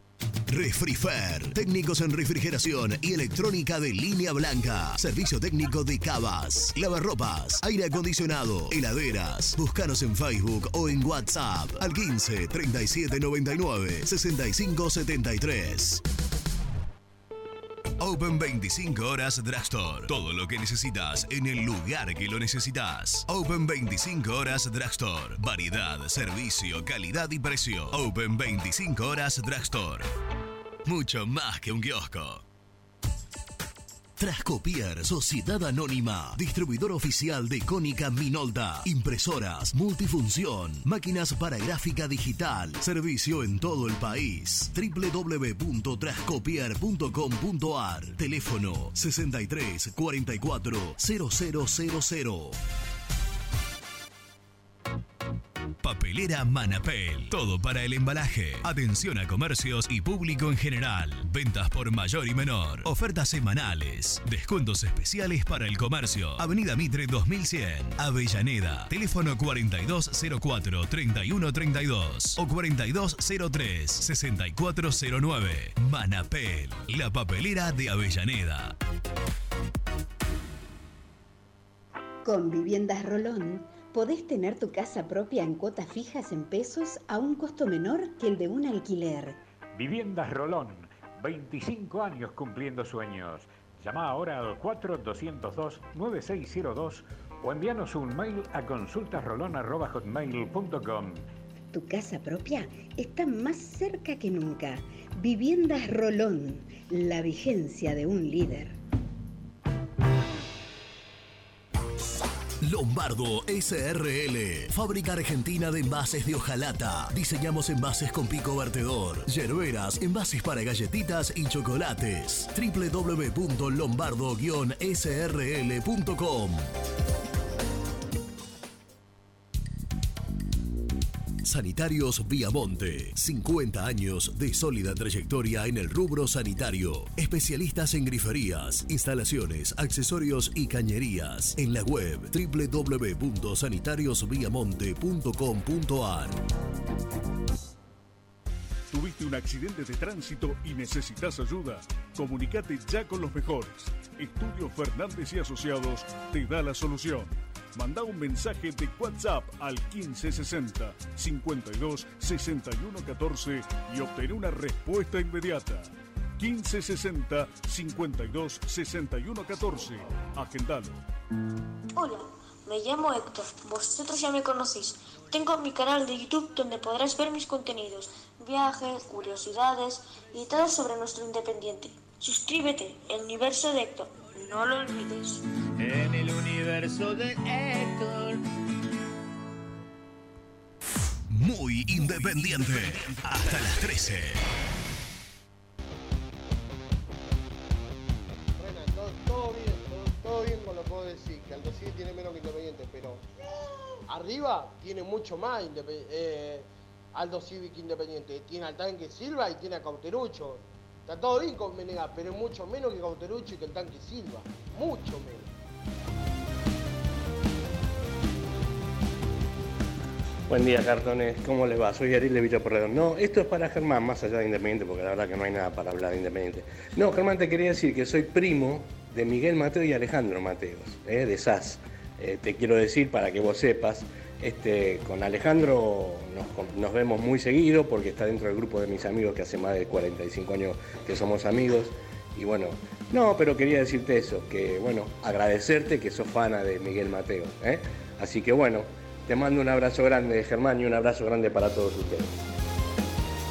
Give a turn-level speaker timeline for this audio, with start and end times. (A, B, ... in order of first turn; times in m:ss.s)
0:00.5-0:16.0 A
0:18.0-0:30.1 A
0:30.8-0:32.4 A
0:34.2-0:52.6 A
0:55.8-1:18.8 A
1:22.2-1:29.4 B
1:29.7-1:41.2 C
1:41.7-1:48.8 B
1:52.6-2:06.7 A
2:11.4-2:26.4 A
2:28.9-2:51.0 D
2:52.0-3:05.4 E
3:05.8-3:08.4 F
3:11.3-3:14.4 A
3:18.6-3:23.2 G
3:24.1-3:35.5 G
3:40.5-4:12.4 H